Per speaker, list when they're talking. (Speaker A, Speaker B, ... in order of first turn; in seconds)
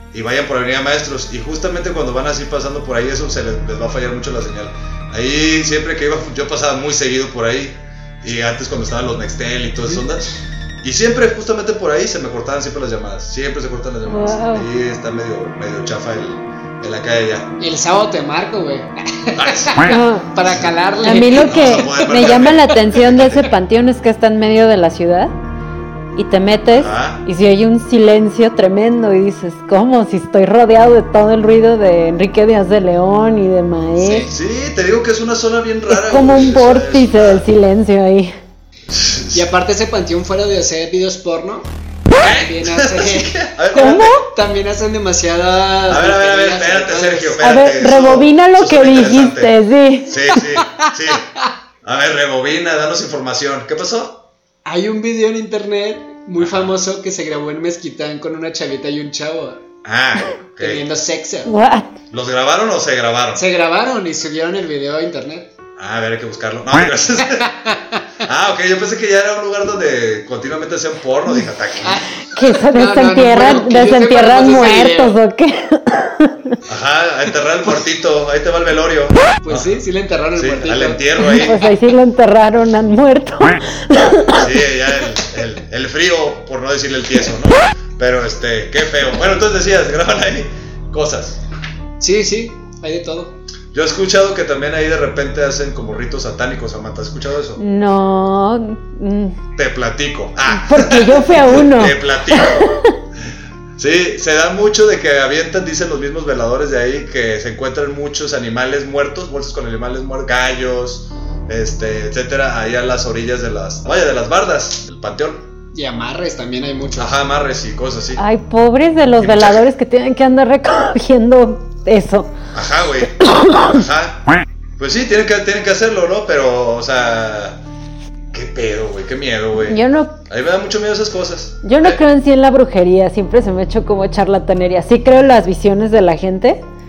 Speaker A: 0.1-17.5, 19.4-19.9, 20.4-23.5, 26.7-27.2, 34.3-37.5, 38.9-39.5, 42.2-44.2, 45.9-49.6, 50.1-51.2, 51.8-54.2, 56.4-56.7, 59.8-60.8, 62.1-63.5, 65.8-67.5, 68.2-72.1, 76.7-79.8, 80.3-81.7, 84.3-91.4, 93.7-97.6, 99.6-102.7, 103.8-115.5, 117.0-118.2, 119.2-119.6, 122.5-124.2, 124.8-127.6, 128.3-132.0
Speaker B: 14.1-14.7, 19.9-20.3, 21.0-25.3, 26.1-34.3, 35.9-38.3, 43.7-44.2, 47.4-50.4, 61.5-61.9, 72.2-76.6, 81.2-84.5, 97.6-99.4, 100.5-103.0, 118.2-122.3, 123.2-123.8, 129.6-130.2, 131.6-136.6
Speaker C: 17.6-22.5, 34.0-34.3, 39.3-41.7, 42.3-47.5, 50.4-50.9, 54.6-59.6, 60.6-61.5, 63.4-65.5, 67.4-68.0, 71.8-75.2, 79.4-81.2, 92.0-93.3, 115.7-117.2